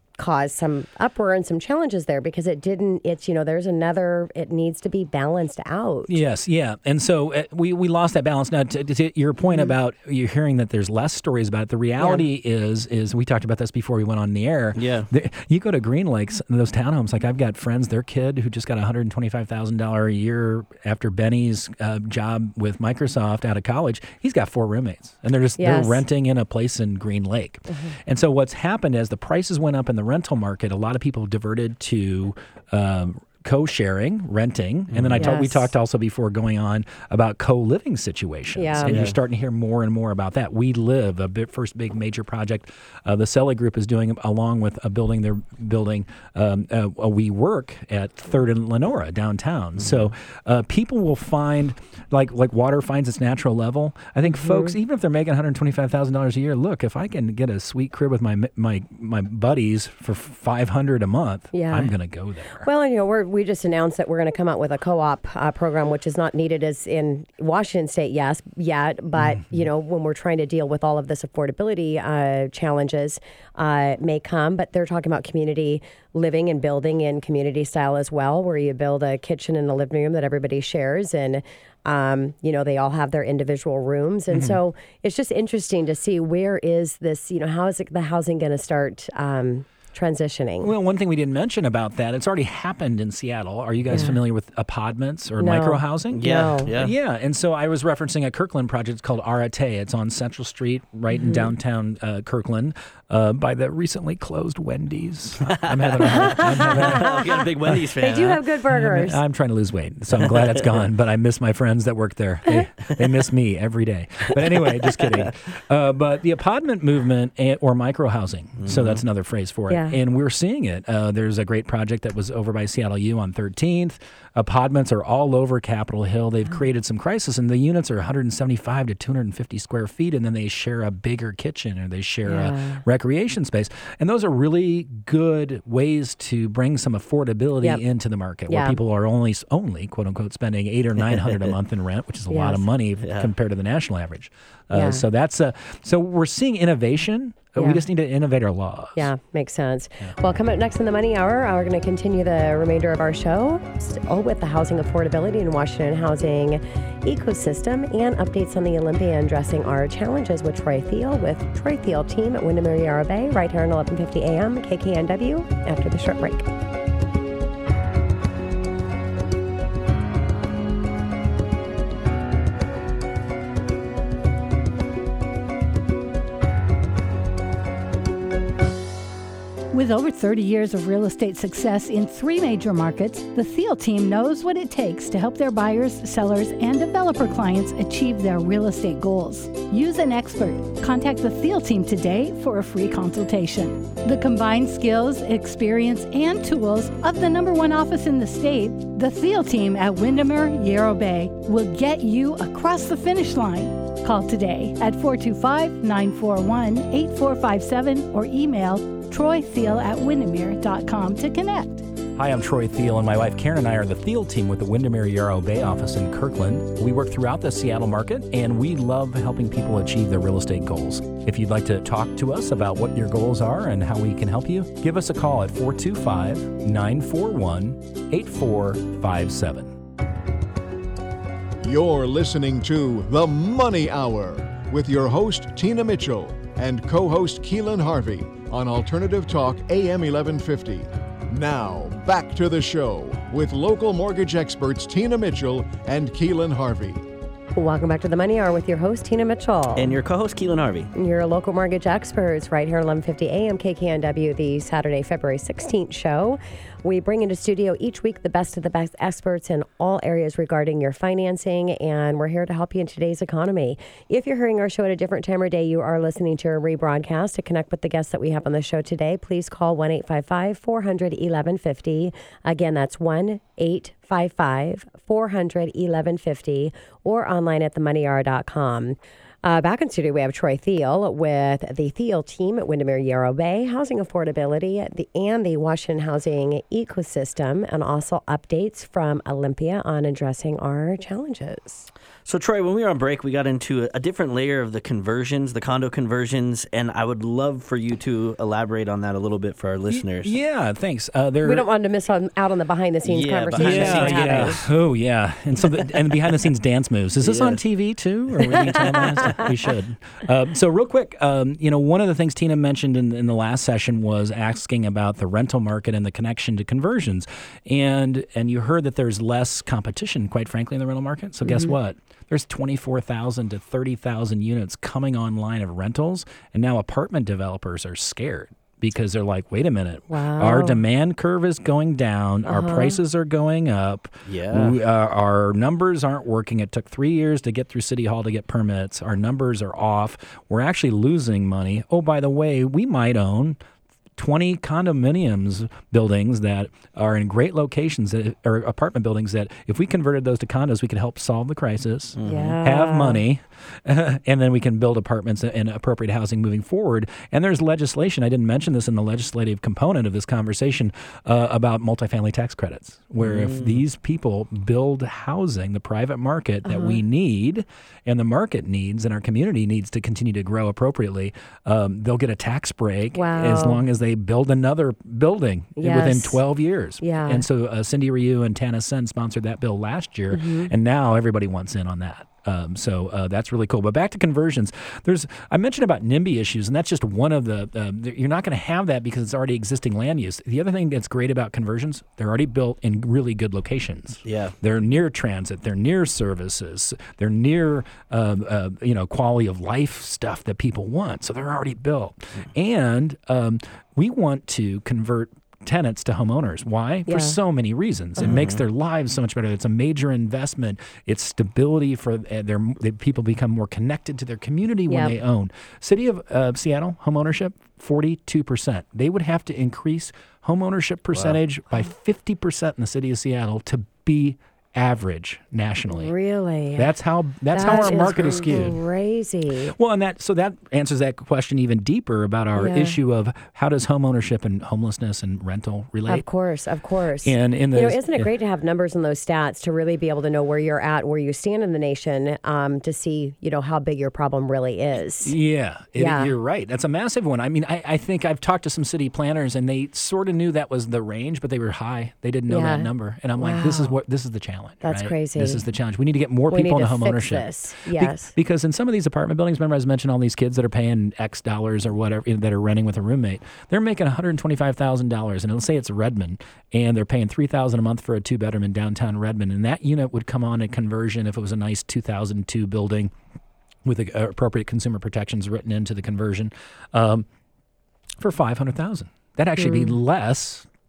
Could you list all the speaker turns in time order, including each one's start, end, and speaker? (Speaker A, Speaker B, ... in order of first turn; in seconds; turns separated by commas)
Speaker A: 0.2-6.2, Speaker B: 6.1-62.7, Speaker A: 9.4-9.7, Speaker C: 14.8-15.1, Speaker A: 25.6-26.0, Speaker A: 27.7-28.0, Speaker C: 34.9-35.3, Speaker A: 35.2-35.7, Speaker A: 38.6-39.1, Speaker C: 38.8-39.2, Speaker A: 54.3-54.7, Speaker A: 61.5-61.9, Speaker A: 62.6-90.7, Speaker B: 84.3-84.6, Speaker B: 90.6-107.1, Speaker A: 93.9-94.2, Speaker A: 95.4-96.7, Speaker C: 96.1-96.9, Speaker A: 101.1-101.5, Speaker C: 105.5-108.4, Speaker A: 106.1-107.1, Speaker A: 108.0-109.2, Speaker B: 108.7-149.1, Speaker C: 118.6-119.0, Speaker A: 119.7-120.0, Speaker A: 132.3-132.8, Speaker A: 138.5-138.8, Speaker C: 141.0-141.5, Speaker A: 142.3-142.7, Speaker C: 143.0-143.3, Speaker A: 144.7-145.0, Speaker A: 147.6-147.8, Speaker A: 149.0-166.4, Speaker D: 179.7-211.9, Speaker B: 212.2-229.8, Speaker E: 231.6-247.0, Speaker A: 247.6-249.9, Speaker C: 249.8-250.9, Speaker A: 250.9-291.9, Speaker C: 292.3-300.4, Speaker B: 299.9-301.7, Speaker A: 301.4-304.6, Speaker C: 303.0-304.7, Speaker B: 303.6-343.6, Speaker C: 307.2-307.6, Speaker A: 308.9-309.4, Speaker A: 321.4-321.8, Speaker A: 330.1-330.8, Speaker A: 332.4-333.0, Speaker C: 334.3-334.8, Speaker B: 344.2-426.1, Speaker C: 352.2-352.6, Speaker A: 352.2-353.2, Speaker C: 363.2-363.8, Speaker A: 366.6-367.0, Speaker A: 373.1-373.8, Speaker A: 375.8-376.4, Speaker A: 377.0-377.4, Speaker A: 380.3-380.7, Speaker C: 394.2-394.5, Speaker A: 407.1-407.4, Speaker C: 408.2-408.6, Speaker A: 414.9-415.2, Speaker A: 425.9-426.9, Speaker B: 426.8-428.8, Speaker A: 427.5-429.7, Speaker B: 429.7-436.2, Speaker A: 432.6-433.0, Speaker A: 436.1-445.4, Speaker B: 437.2-438.3, Speaker B: 445.2-473.1, Speaker A: 446.0-446.3, Speaker A: 452.5-453.9, Speaker A: 454.8-455.6, Speaker A: 456.5-458.3, Speaker B: 473.8-477.3, Speaker B: 478.2-480.7, Speaker A: 479.6-480.0